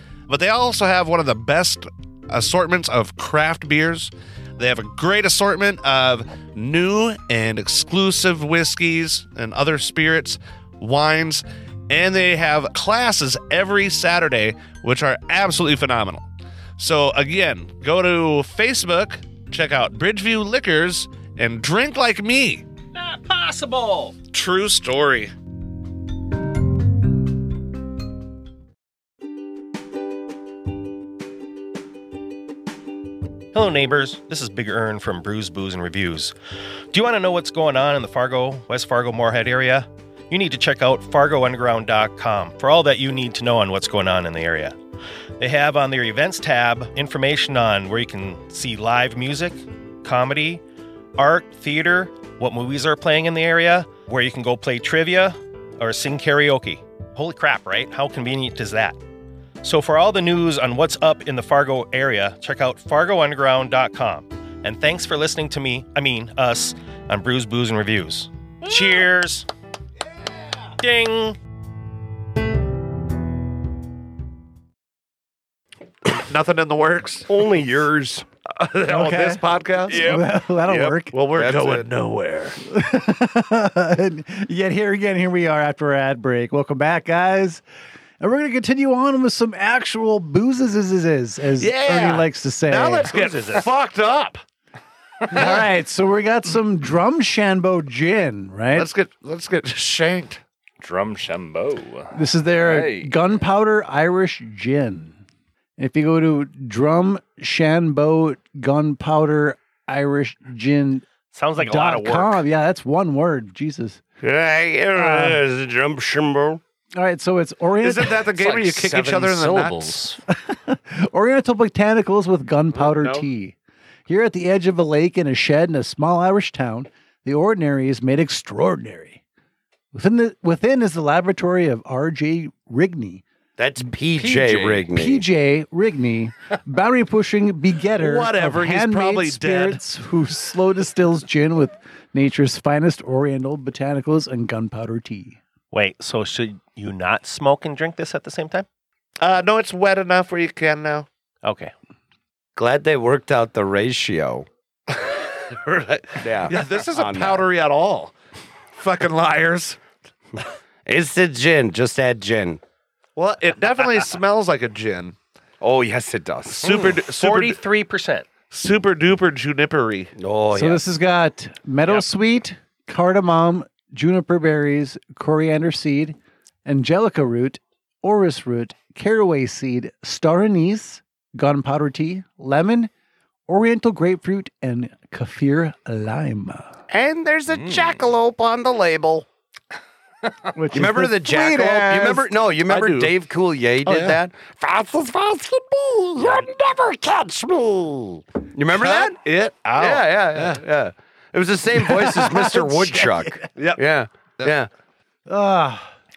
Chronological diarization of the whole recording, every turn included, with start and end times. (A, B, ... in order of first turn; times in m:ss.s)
0:00.3-0:16.2 A
0:16.8-0:22.6 A
0:22.9-0:24.2 B
0:24.3-0:25.3 A
0:33.5-0:36.3 B
0:36.9-0:44.7 B
0:45.4-0:50.6 B
0:51.2-0:59.0 B
0:59.6-1:09.5 B
1:10.8-1:11.4 B
1:16.0-1:17.3 A
1:17.3-1:18.2 C
1:18.6-1:22.6 A
1:18.9-1:21.1 D
1:21.3-1:21.9 C
1:22.7-1:27.6 D
1:28.2-1:33.1 D
1:31.6-1:34.4 A
1:35.3-1:38.9 D
1:35.3-1:35.6 A
1:38.7-1:40.4 A
1:40.8-1:43.4 E
1:42.1-1:45.2 D
1:45.8-1:51.0 D
1:51.3-1:52.4 B
1:51.6-1:54.0 D
1:54.2-1:56.6 C
1:54.9-1:55.4 D
1:57.0-1:58.2 D
1:57.8-2:00.0 A
1:58.3-2:00.2 E
2:00.3-2:03.5 D
2:02.7-2:03.2 A
2:04.1-2:09.2 D
2:09.9-2:13.2 D
2:13.6-2:15.2 C
2:14.2-2:25.4 D
2:14.4-2:14.7 E
2:18.0-2:19.8 A
2:25.7-2:28.6 B
2:29.2-2:31.1 A
2:31.4-2:31.7 B
2:32.6-2:34.5 C
2:34.9-2:38.1 A
2:36.2-2:37.5 C
2:38.7-2:39.8 A
2:40.8-2:42.6 C
2:43.2-2:45.2 A
2:45.6-2:46.8 C
2:46.6-2:47.6 A
2:46.6-2:48.2 B
2:48.5-2:50.1 A
2:50.2-2:50.8 C
2:50.5-3:02.9 D
3:03.5-3:06.8 D
3:06.9-3:09.2 C
3:07.6-3:07.9 E
3:10.5-3:12.2 D
3:10.7-3:19.2 C
3:12.7-3:13.1 A
3:13.8-3:14.2 A
3:18.7-3:20.6 A
3:19.7-3:24.7 C
3:21.8-3:23.4 D
3:23.6-3:23.9 A
3:25.3-3:25.9 D